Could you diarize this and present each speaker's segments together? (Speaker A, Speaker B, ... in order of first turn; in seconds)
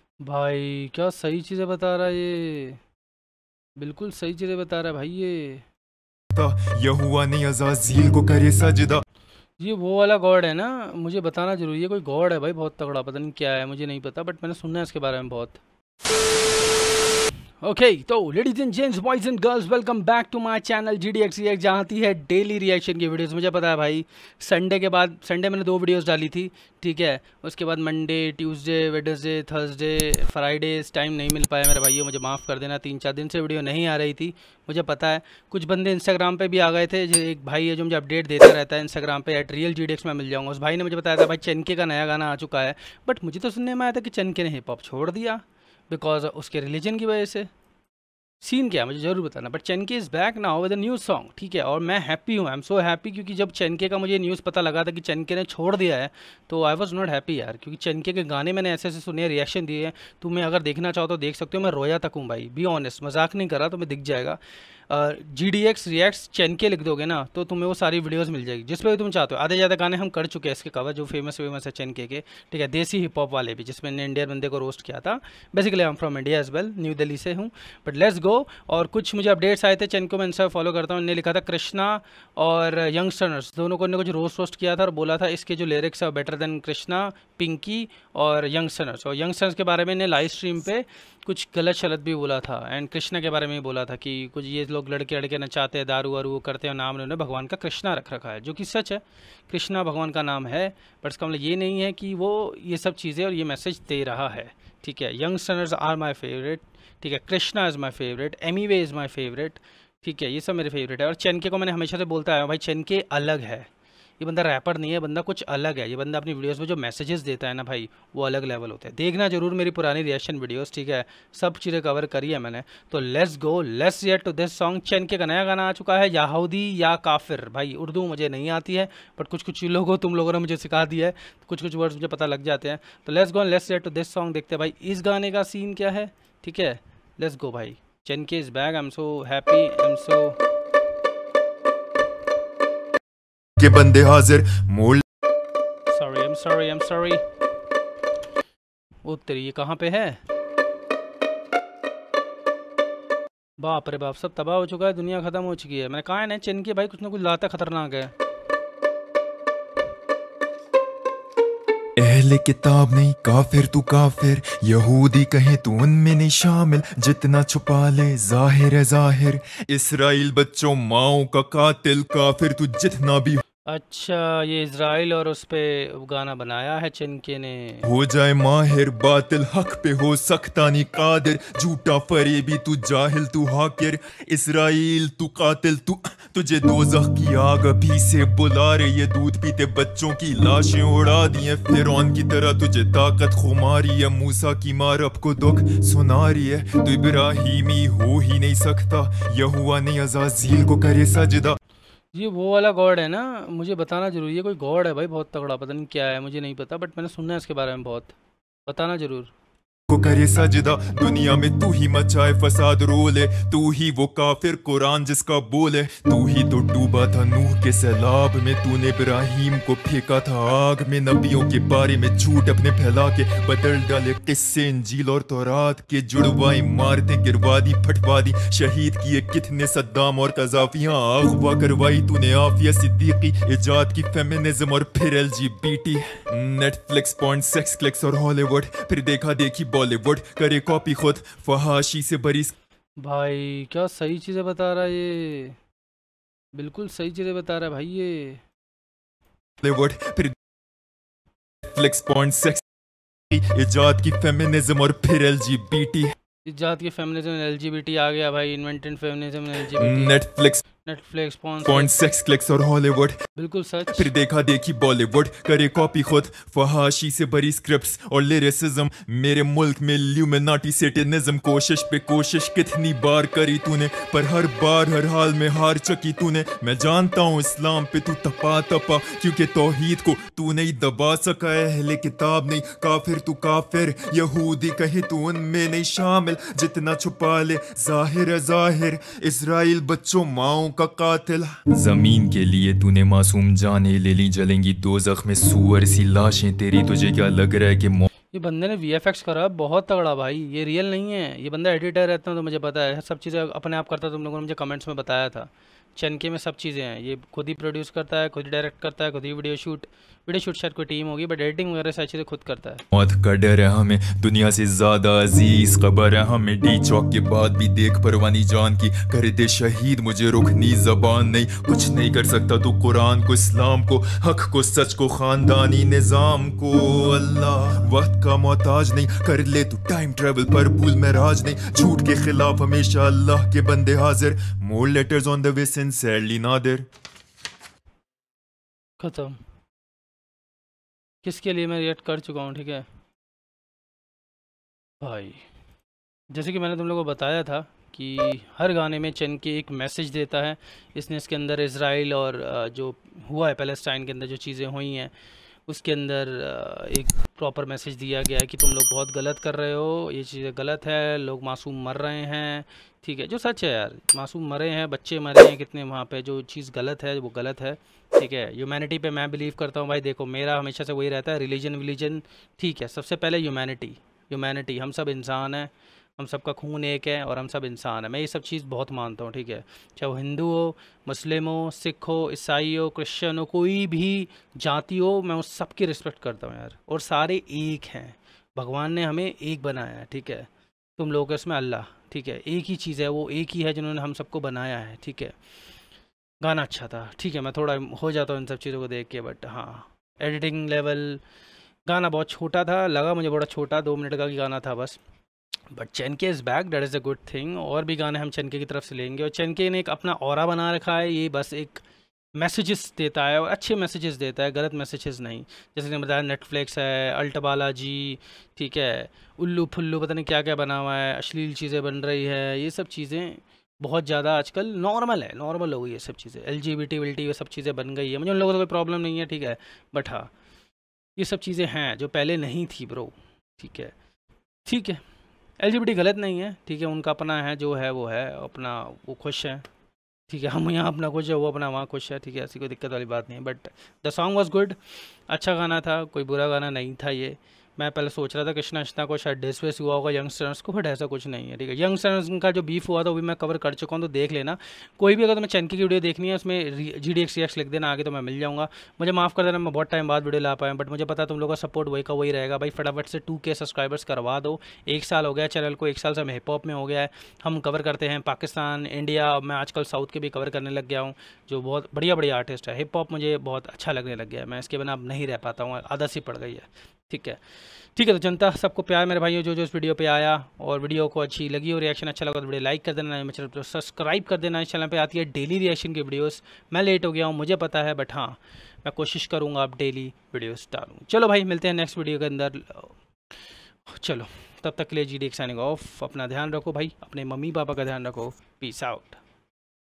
Speaker A: 0.2-2.8, 3.8-5.7, 9.6-15.6, 17.6-47.5, 48.4-113.7, 114.2-140.4, 145.9-147.2, 149.1-150.2, 153.6-158.1, 173.7-177.9, 202.1-208.2, 208.7-209.3, 243.0-245.6, 246.6-248.4, 256.4-260.2, 260.8-261.9, 263.4-264.1, 298.3-312.8, 339.0-339.4, 341.2-342.9, 345.0-345.4, 346.3-355.1, 355.7-395.4, 396.4-401.2, 401.9-405.0, 405.7-411.8, 412.4-430.3, 431.2-433.9, 434.7-435.0, 435.6-439.7, 440.3-477.4, 477.9-493.0, 493.9-499.2
Speaker B: 6.3-9.0, 143.6-145.0, 162.0-173.4, 177.8-201.6, 209.9-242.5, 249.6-250.4, 251.6-252.6, 253.3-256.1, 259.7-260.6, 261.6-263.2, 263.9-298.1, 312.9-336.9